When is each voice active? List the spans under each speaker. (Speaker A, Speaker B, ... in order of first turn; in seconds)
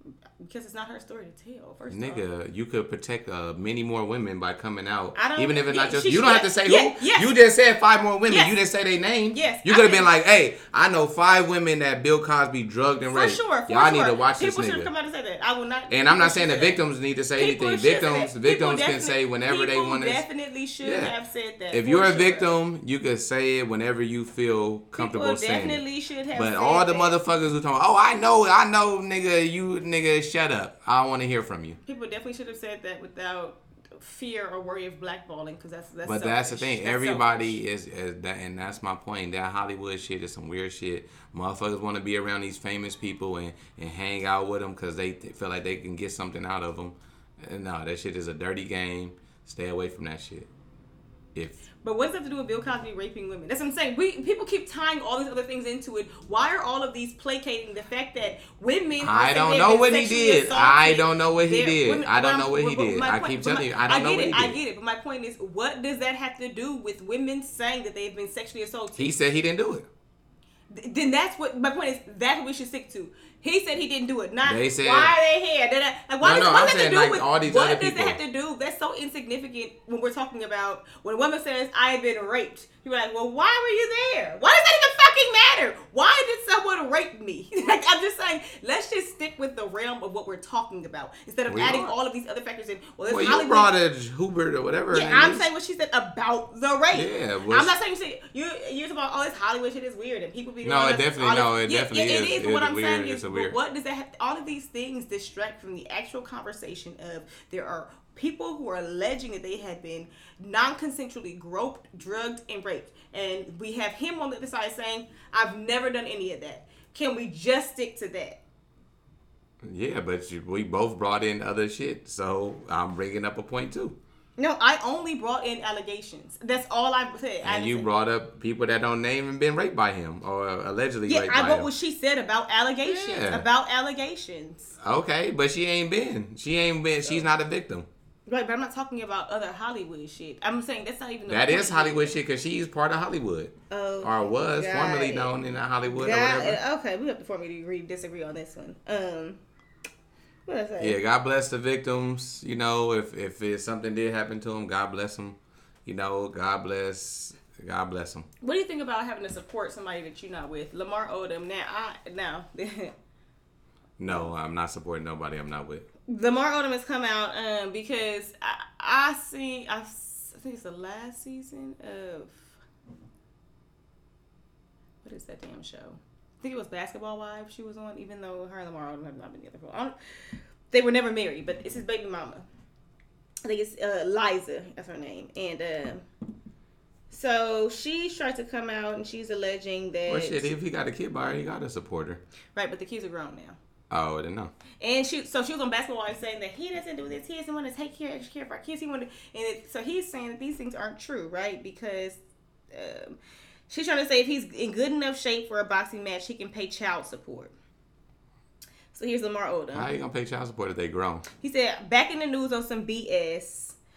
Speaker A: 0.4-2.2, 5.2-7.3, 9.3-10.1, 13.1-16.8, 17.4-22.5, 25.0-27.2, 31.9-37.6, 51.8-69.1, 70.7-93.8, 94.9-118.4, 124.4-127.9, 131.1-134.7, 138.3-142.2, 143.7-145.4, 145.9-149.4, 150.5-151.0, 158.4-162.9, 166.1-172.6, 175.0-179.9, 180.7-182.5, 183.4-186.1, 187.1-190.5, 192.6-193.6, 194.8-202.2, 202.7-203.2, 203.7-207.5, 208.9-209.9, 211.4-213.8
Speaker B: 1.9-14.9, 15.9-20.2, 20.8-21.1, 21.7-25.8, 26.4-31.8, 36.0-50.5, 51.4-51.6, 59.0-64.6, 69.0-69.9, 74.4-75.2, 76.2-78.2, 91.5-91.9, 93.1-95.4, 96.9-97.7, 100.6-103.6, 119.6-124.0, 127.4-131.7, 132.8-133.5, 134.8-137.9, 141.3-146.6, 150.8-158.3, 164.0-165.9, 190.1-192.2, 193.9-194.5, 209.7-211.3